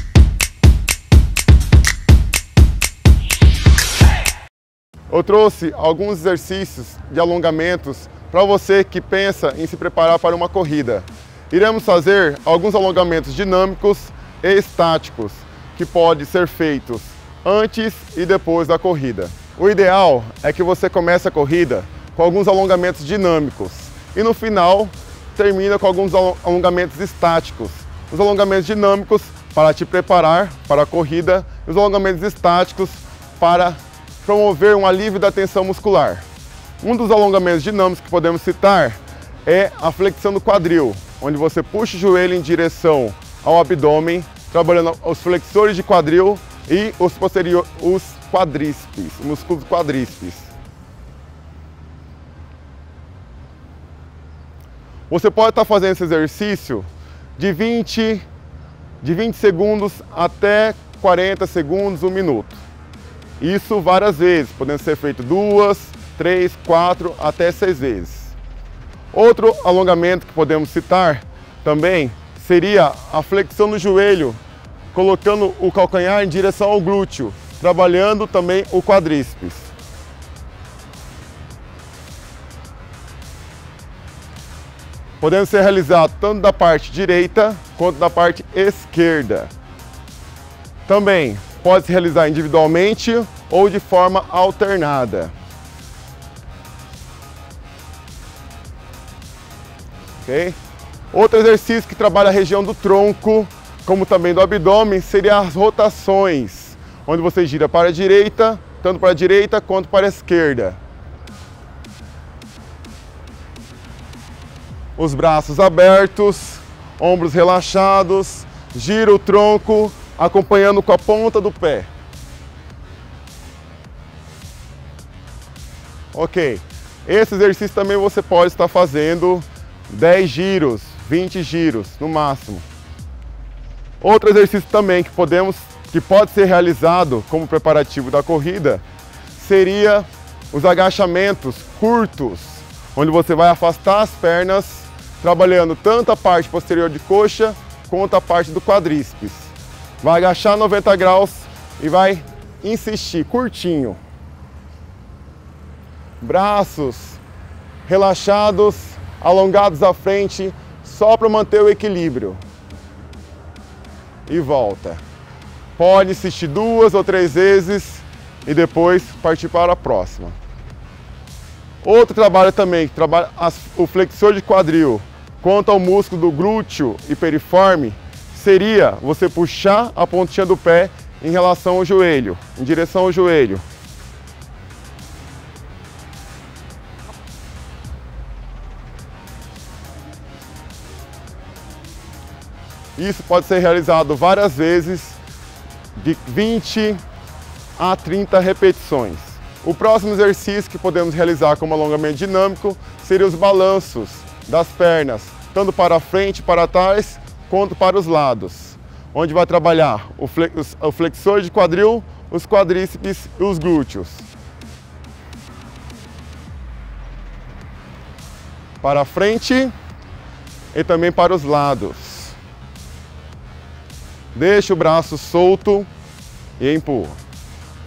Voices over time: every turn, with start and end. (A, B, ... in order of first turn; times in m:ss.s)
0:05.1-0:36.2 A
0:36.8-0:50.5 A
0:55.1-0:58.2 A
0:59.0-1:02.6 A
1:03.4-1:08.3 A
1:09.1-1:14.4 A
1:14.9-1:19.7 A
1:25.2-1:29.5 A
1:30.9-1:35.3 A
1:40.2-1:40.6 A
1:41.1-1:50.8 A
1:55.0-2:01.9 A
2:06.1-2:12.6 A
2:14.0-2:18.8 A
2:19.3-2:34.0 A
2:36.2-2:37.2 A
2:37.8-2:42.4 A
2:44.3-2:45.0 A
2:45.8-2:50.3 A
2:51.8-3:03.6 A
3:13.0-3:15.2 A
3:16.0-3:17.0 A
3:17.8-3:34.3 A
3:38.8-3:39.7 A
3:40.7-3:42.4 A
3:44.3-3:45.9 A
3:46.6-3:47.2 A